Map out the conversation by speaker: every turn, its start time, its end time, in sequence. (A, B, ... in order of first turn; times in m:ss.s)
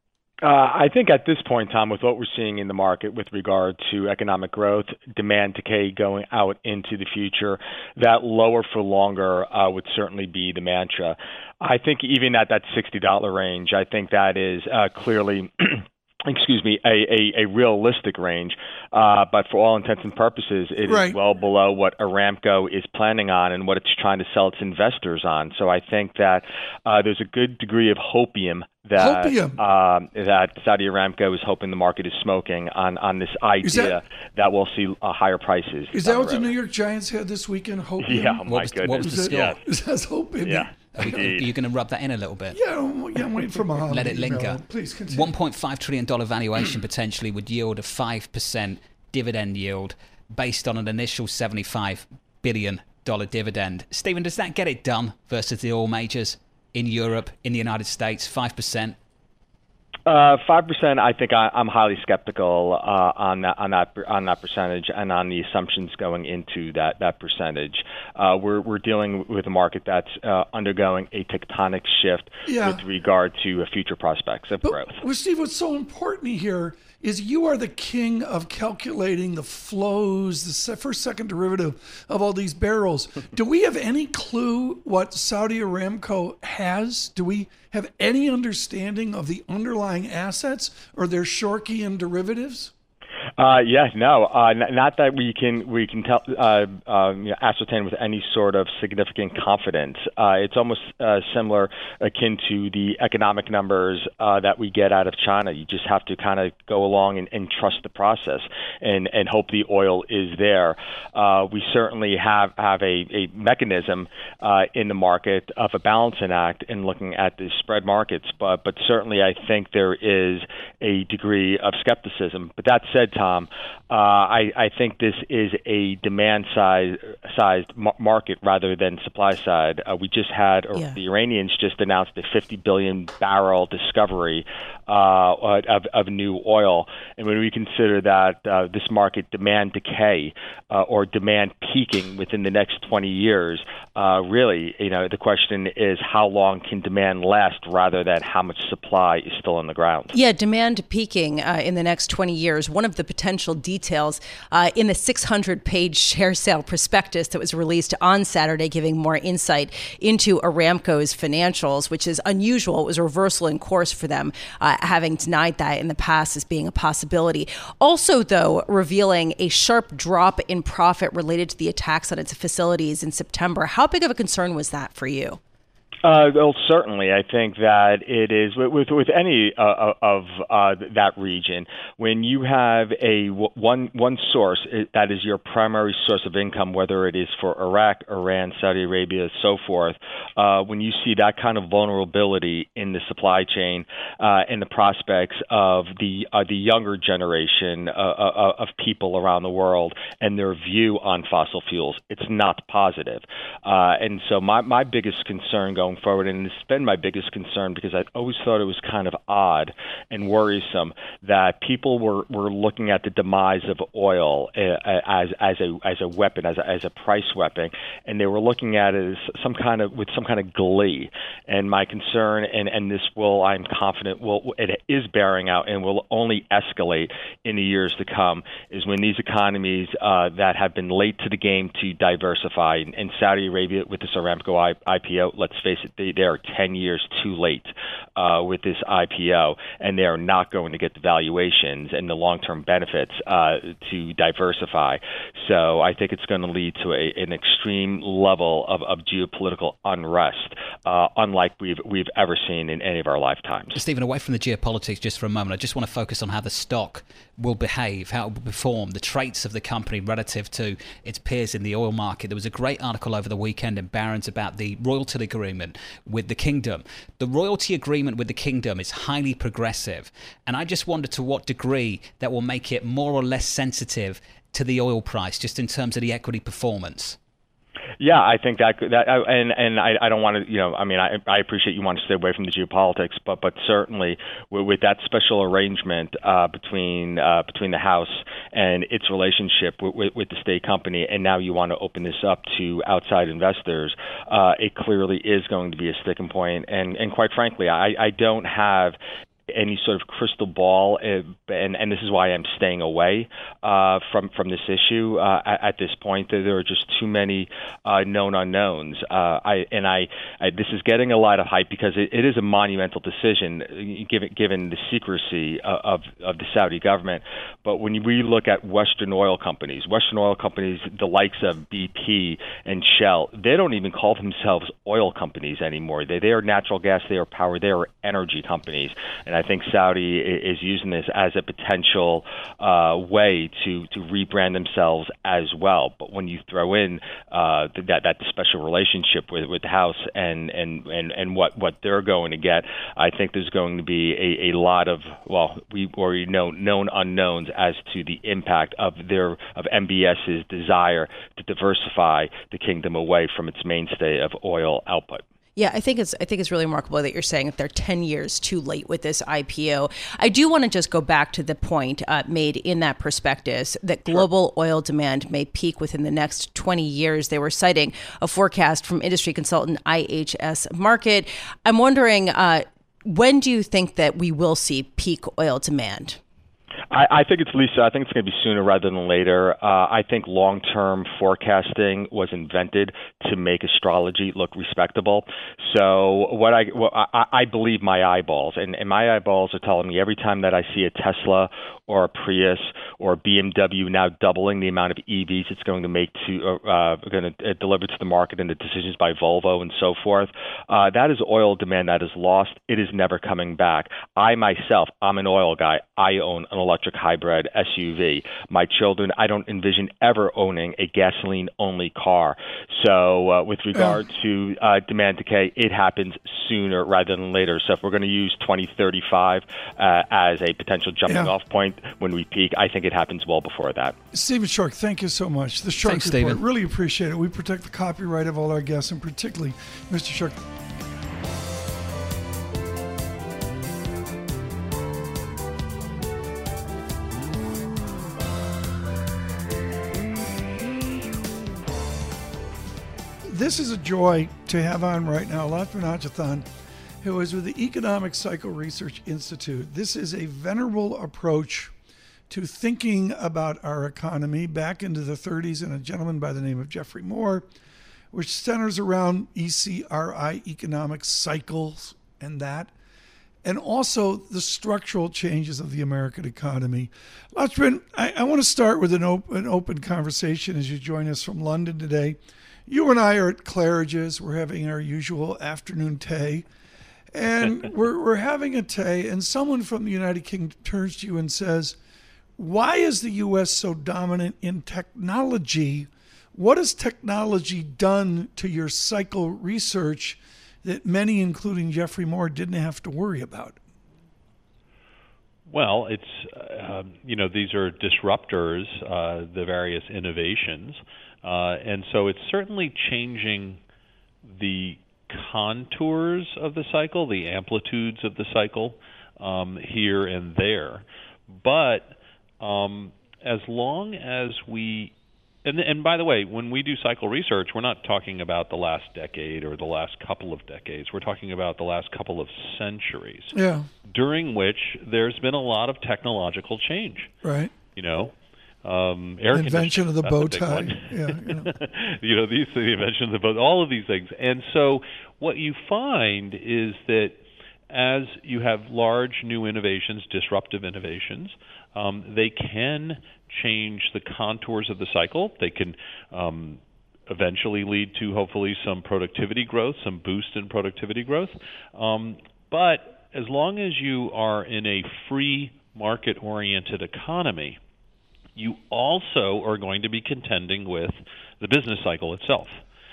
0:00.4-0:36.5 A
0:20.8-0:21.2 B
0:29.0-0:29.6 B
0:33.6-0:34.0 B
0:35.9-0:41.0 B
0:38.0-0:39.4 A
0:38.4-0:39.6 C
0:40.4-0:41.5 A
0:41.0-0:42.6 C
0:42.5-0:45.3 B
0:43.6-0:59.0 C
1:00.0-1:15.0 A
1:12.4-1:12.8 B
1:14.6-1:32.7 B
1:33.4-2:30.1 A
2:30.1-2:55.4 D
2:56.0-4:13.8 A
4:13.7-4:37.2 C
4:38.0-4:59.0 A
4:59.5-5:55.2 A
5:55.6-6:16.2 D
6:16.9-7:03.9 A
6:53.7-6:54.0 B
7:04.1-7:10.4 B
7:05.8-7:06.4 C
7:23.2-7:26.4 B
7:27.0-7:31.7 B
7:32.3-7:37.5 B
7:38.1-7:42.7 B
7:43.4-7:56.4 B
7:57.1-8:01.8 B
8:02.4-8:13.6 B
8:15.5-8:23.6 E
8:24.2-8:34.9 E
8:35.4-8:47.1 E
8:43.3-8:43.7 B
8:47.2-8:47.5 B
8:47.7-8:57.2 E
8:49.3-8:51.6 B
8:57.7-9:17.6 E
9:18.3-9:22.6 E